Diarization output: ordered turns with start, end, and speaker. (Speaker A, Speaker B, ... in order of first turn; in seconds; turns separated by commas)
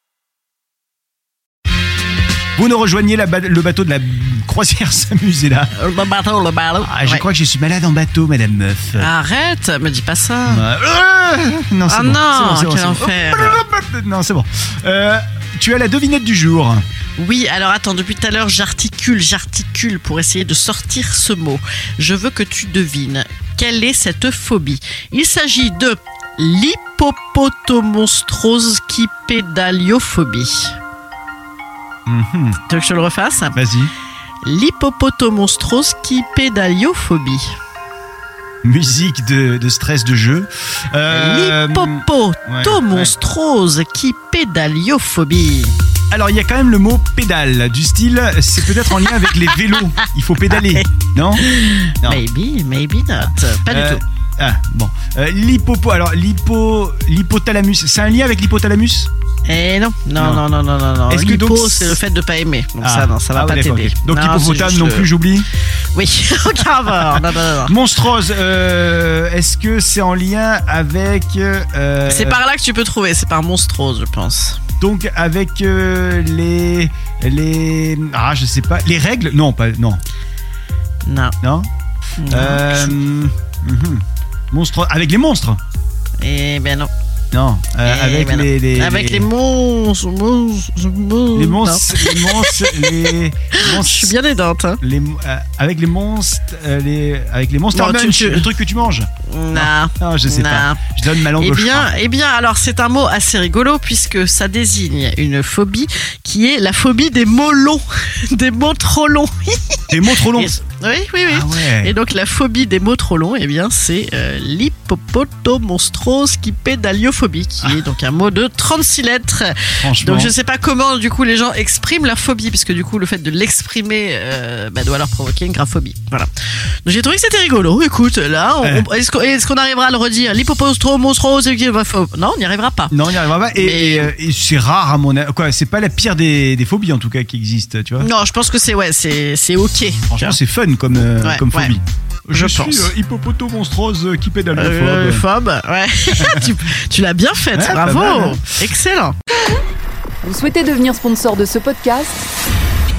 Speaker A: 2.5-5.7, Speaker B: 5.7-7.3, Speaker A: 6.8-9.1, Speaker B: 9.0-10.6, Speaker A: 10.4-16.8, Speaker B: 11.9-13.6, Speaker B: 17.2-30.8, Speaker A: 32.1-32.6, Speaker B: 32.7-33.6, Speaker A: 33.5-33.9, Speaker B: 34.4-37.5, Speaker A: 38.6-43.1, Speaker B: 41.0-45.7, Speaker A: 46.1-51.5, Speaker B: 48.9-54.0, Speaker A: 53.2-59.1, Speaker B: 59.4-65.1, Speaker A: 60.2-60.5, Speaker A: 61.1-62.0, Speaker A: 62.8-65.5, Speaker B: 65.9-67.8, Speaker A: 66.7-72.4, Speaker B: 72.0-74.6, Speaker A: 74.8-80.0, Speaker B: 81.0-81.3, Speaker A: 81.4-81.7, Speaker B: 82.2-83.0, Speaker A: 82.3-85.6, Speaker B: 86.2-86.9, Speaker A: 87.3-89.3, Speaker B: 87.8-94.8, Speaker A: 91.3-94.2, Speaker A: 94.8-101.9, Speaker B: 97.7-98.5, Speaker B: 99.3-126.3, Speaker A: 109.9-110.6, Speaker A: 111.2-111.9, Speaker A: 119.8-120.3, Speaker B: 126.8-132.9, Speaker A: 128.6-128.9, Speaker A: 132.9-138.1, Speaker B: 133.5-134.1, Speaker B: 138.0-140.4, Speaker A: 140.1-145.2, Speaker B: 141.2-141.8, Speaker B: 142.3-142.9, Speaker B: 144.5-149.2, Speaker A: 146.2-146.5, Speaker A: 147.5-148.4, Speaker C: 150.2-152.3